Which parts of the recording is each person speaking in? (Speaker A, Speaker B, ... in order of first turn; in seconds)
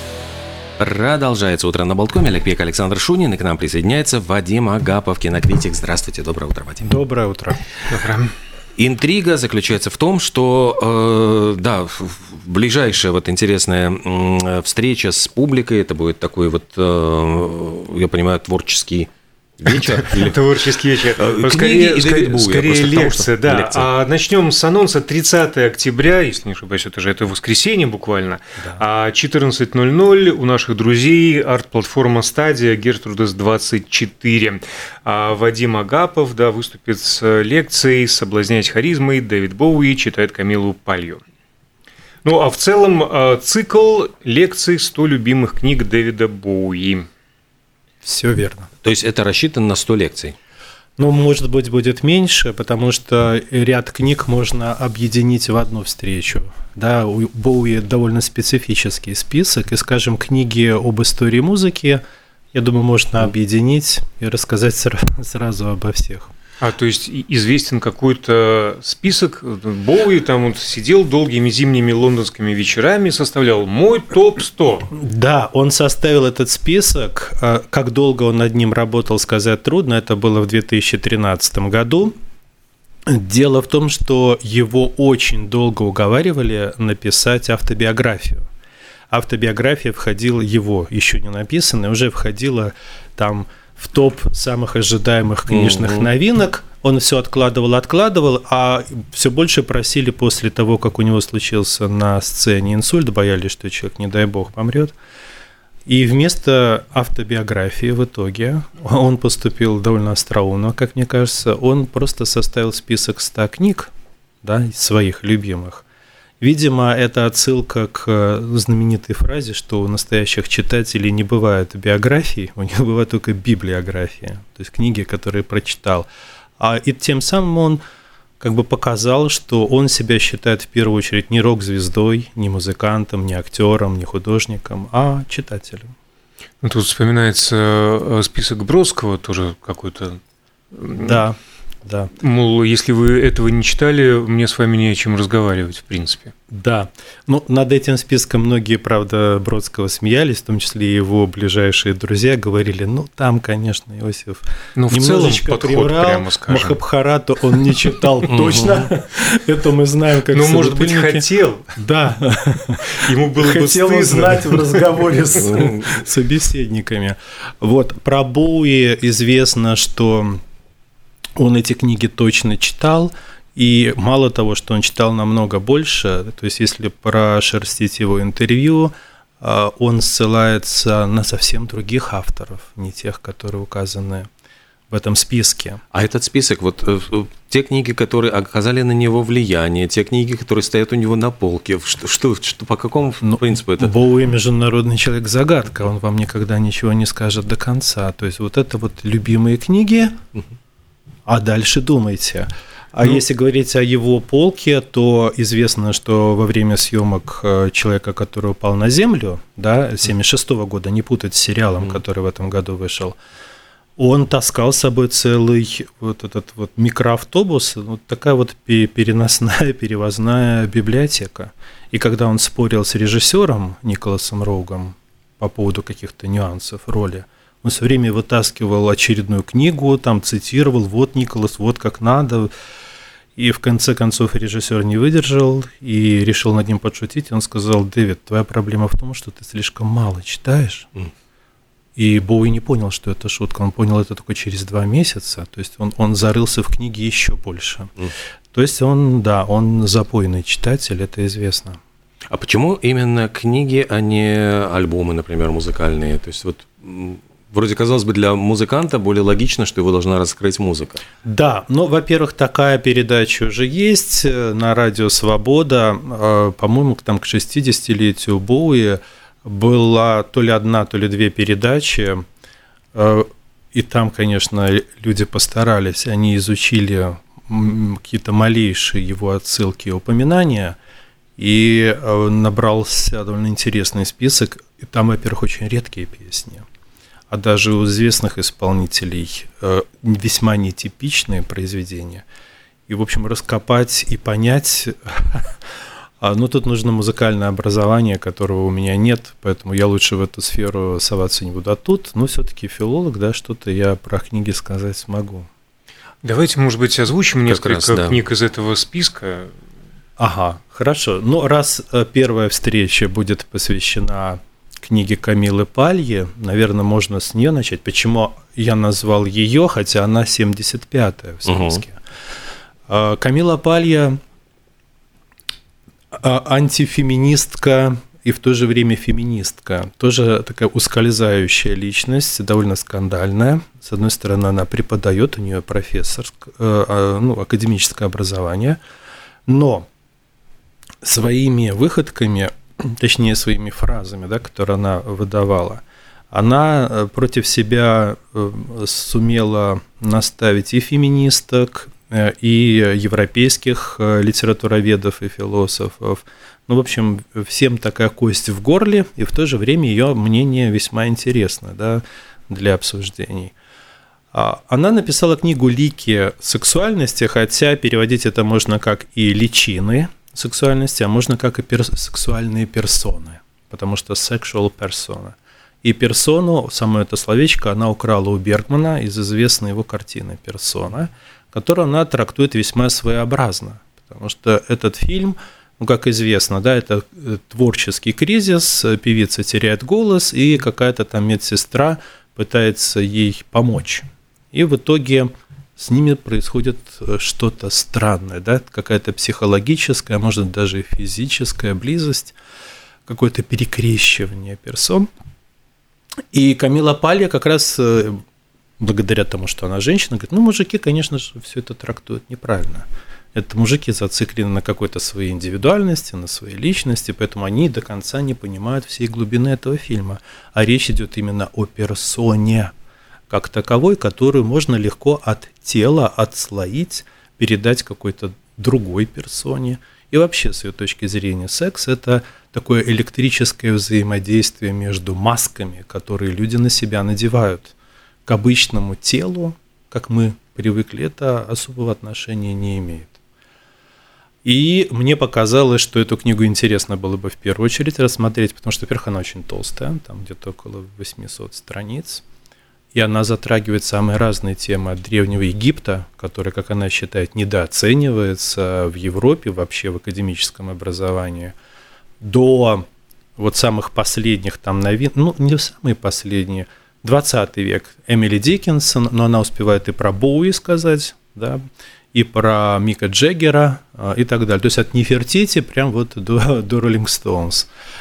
Speaker A: 0.8-7.0, 8.8-20.4, 21.2-23.9, 48.8-50.3, 95.5-96.1, 158.3-158.9, 165.4-166.0, 185.9-193.9, 252.3-261.0, 307.4-308.2, 321.4-321.8
Speaker B: 6.8-7.6, 48.0-48.7, 51.0-62.0, 62.5-66.3, 74.9-82.1, 83.1-88.4, 89.1-104.9, 105.8-113.9, 114.4-115.8, 116.4-127.8, 128.4-135.9, 141.0-142.1, 146.5-170.4, 171.4-184.3, 184.9-185.8, 193.2-200.2, 201.3-213.2, 214.0-232.5, 233.3-240.9, 241.9-247.9, 248.5-251.8, 261.2-272.2, 272.9-280.8, 281.4-286.6, 287.3-292.2, 292.9-295.5, 296.2-305.5, 310.2-322.0, 322.9-324.2, 326.1-338.8, 339.5-339.9, 341.0-363.5, 364.3-402.4, 403.1-405.1, 406.3-408.2, 408.8-422.7, 423.3-437.7, 438.2-443.2, 444.4-452.2, 452.9-461.5, 462.2-462.9, 463.4-471.6, 472.1-477.7
Speaker C: 7.8-8.3, 19.8-41.2, 42.2-47.0, 66.6-74.9, 136.6-140.2, 140.7-141.2, 142.2-146.3, 154.8-156.8, 160.3-161.7, 162.8-164.8, 306.2-309.5